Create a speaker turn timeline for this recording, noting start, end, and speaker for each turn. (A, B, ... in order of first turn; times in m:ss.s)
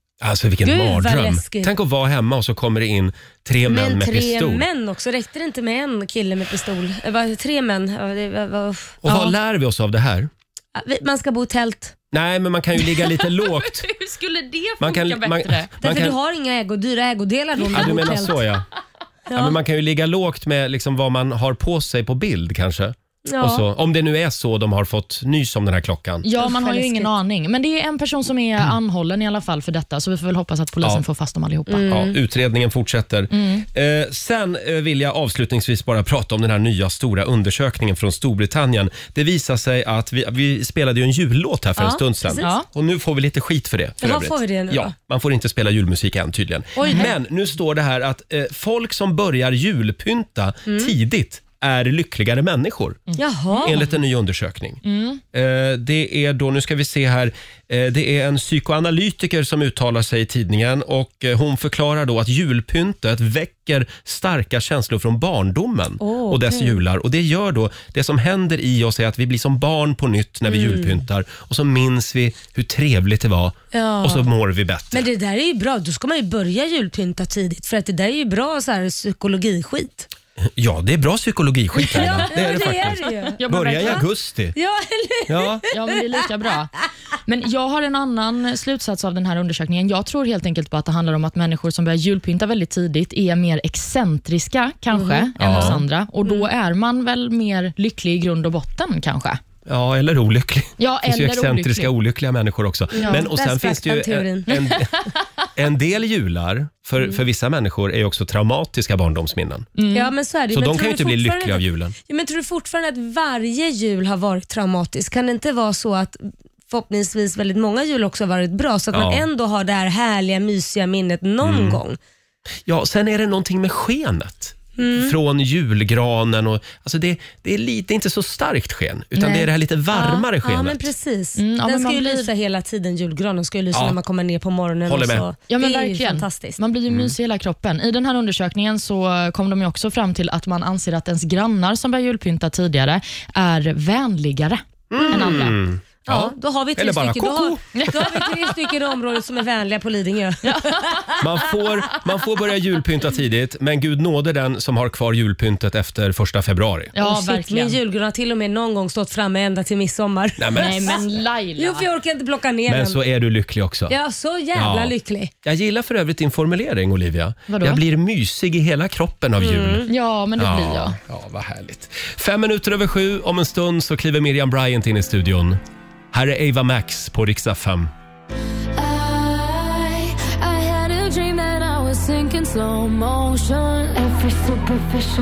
0:00.2-0:04.6 A
0:00.6-0:01.7 B
0:03.7-0:09.3 B
0:09.0-0:10.3 A
0:10.8-0:12.0 B
0:12.1-0:13.8 A
0:13.1-0:15.7 C
0:14.8-0:16.2 A
0:15.8-0:18.4 B
0:17.7-0:18.6 A
0:19.3-0:19.6 B
0:19.3-0:26.3 A
0:23.3-0:23.6 B
0:26.2-0:32.0 C
0:26.4-0:27.1 B
0:31.7-0:32.2 B
0:31.9-0:53.0 A
0:33.3-0:33.7 C
0:41.8-0:42.5 B
0:42.4-0:42.7 C
0:44.0-0:44.9 B
0:46.8-0:47.1 B
0:50.7-0:50.9 B
0:53.2-0:53.8 C
0:53.2-0:53.8 B
0:53.6-0:54.8 A
0:54.8-0:55.2 C
0:55.3-1:15.1 A
1:06.0-1:06.8 B
1:10.5-1:11.0 B
1:13.7-1:14.3 B
1:14.9-1:20.1 B
1:20.6-1:24.6 A
1:21.8-1:24.0 B
1:23.4-1:24.0 C
1:24.6-1:25.7 B
1:25.3-1:25.6 A
1:25.7-1:26.7 C
1:27.3-1:39.4 C
1:34.9-1:36.5 B
1:35.4-1:35.8 A
1:39.7-1:49.7 A
1:40.8-1:41.9 C
1:43.0-1:44.5 B
1:49.8-1:50.1 C
1:49.9-1:56.2 B
1:50.5-1:52.0 A
1:56.7-2:02.0 B
1:58.9-1:59.3 A
2:01.4-2:01.8 A
2:02.7-2:10.9 A
2:04.8-2:05.2 B
2:09.9-2:16.6 B
2:11.4-2:12.3 C
2:14.9-2:15.3 A
2:15.5-2:25.6 C
2:16.9-2:17.1 A
2:24.9-2:27.6 A
2:25.0-2:25.4 B
2:26.0-2:31.2 B
2:27.8-2:28.1 C
2:30.4-2:31.2 C
2:31.2-2:36.9 A
2:37.0-2:37.8 C
2:37.0-2:41.0 B
2:40.4-2:41.0 A
2:40.6-2:41.9 C
2:41.6-2:43.0 B
2:42.7-2:44.0 A
2:43.9-2:45.3 B
2:44.5-2:55.6 A
2:47.5-2:47.8 C
2:49.4-2:49.9 B
2:49.9-2:51.0 C
2:56.1-2:57.9 A
2:58.9-2:59.1 D
3:00.2-3:04.6 D
3:01.0-3:01.8 B